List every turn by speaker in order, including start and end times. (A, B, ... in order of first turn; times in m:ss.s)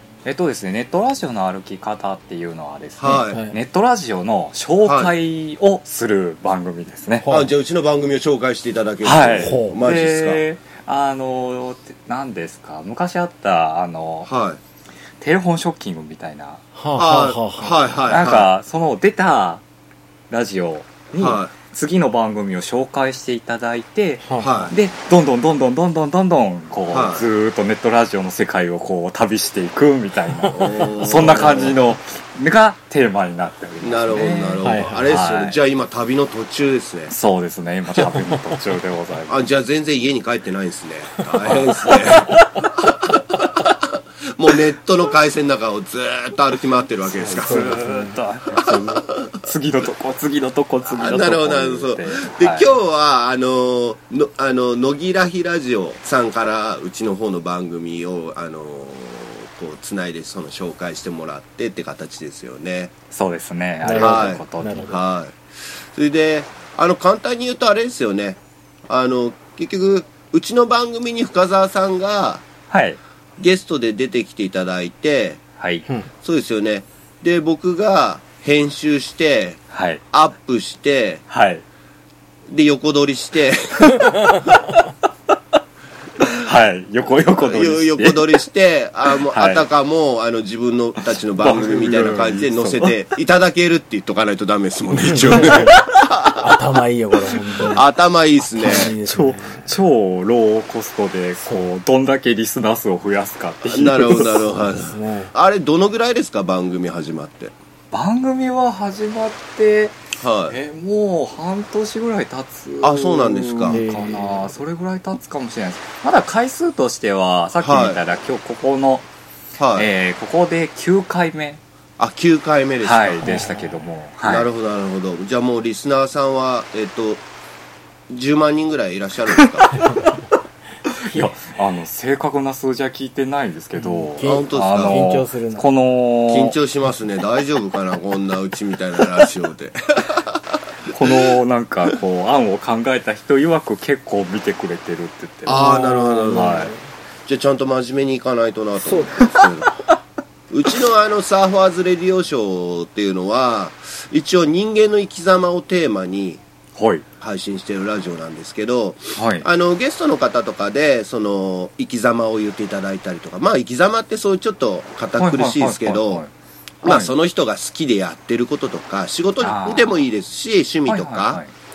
0:00.2-0:07.3 A
0:03.0-0:03.4 B
0:03.3-0:03.6 C
0:04.8-0:05.1 B
0:07.2-0:07.5 C
0:07.3-0:10.4 B
0:09.0-0:14.3 A
0:09.4-0:09.8 C
0:14.2-0:14.6 B
0:15.2-0:16.6 A
0:16.7-0:17.7 C
0:17.0-0:18.5 B
0:18.1-0:19.6 A
0:20.3-0:35.6 A
0:21.1-0:21.5 B
0:24.2-0:24.6 C
0:24.4-0:24.8 B
0:26.9-0:27.3 B
0:30.4-0:30.6 C
0:30.5-0:31.8 B
0:33.8-0:37.1 B
0:34.6-0:35.1 C
0:37.1-0:39.4 A
0:38.0-0:38.6 C
0:39.3-0:47.8 B
0:41.4-0:42.3 A
0:41.4-0:43.2 C
0:47.2-0:49.0 C
0:47.3-0:52.7 A
0:48.6-0:49.3 B
0:50.8-1:02.9 B
1:03.1-1:04.9 A
1:03.8-1:05.0 C
1:03.9-1:12.5 B
1:12.7-1:13.0 A
1:13.4-1:15.4 B
1:15.6-1:15.8 A
1:16.2-1:21.2 B
1:19.7-1:20.0 A
1:21.3-1:21.6 A
1:22.5-1:24.1 B
1:23.9-1:24.8 A
1:24.2-1:24.5 C
1:26.2-1:28.4 A
1:27.4-1:36.6 B
1:29.2-1:29.6 A
1:31.0-1:33.0 A
1:34.9-1:35.8 C
1:35.3-1:35.8 A
1:36.3-1:37.8 C
1:37.6-1:38.9 B
1:38.4-1:39.7 C
1:38.6-1:44.5 A
1:43.6-1:47.5 B
1:44.5-1:45.3 C
1:47.9-1:59.1 A
1:50.2-1:50.6 B
1:52.8-1:53.8 B
1:53.7-1:54.5 C
1:57.6-1:58.0 B
1:59.6-1:59.9 B
1:59.8-2:01.6 A
2:02.0-2:03.5 B
2:02.8-2:04.5 A
2:03.2-2:03.8 C
2:04.2-2:07.2 B
2:08.1-2:09.8 B
2:09.4-2:09.8 A
2:09.8-2:10.2 C
2:10.9-2:16.6 A
2:11.0-2:11.3 C
2:13.8-2:15.6 C
2:14.2-2:15.0 B
2:16.3-2:21.3 B
2:20.9-2:25.6 A
2:25.4-2:26.7 B
2:25.5-2:26.8 C
2:26.3-2:26.7 A
2:27.2-2:29.8 B
2:30.5-2:36.4 B
2:36.8-2:37.0 A
2:37.2-2:46.2 B
2:39.2-2:39.4 A
2:45.2-2:46.3 A
2:46.8-2:47.1 A
2:46.8-2:51.4 B
2:49.4-2:49.9 A
2:50.9-2:51.5 A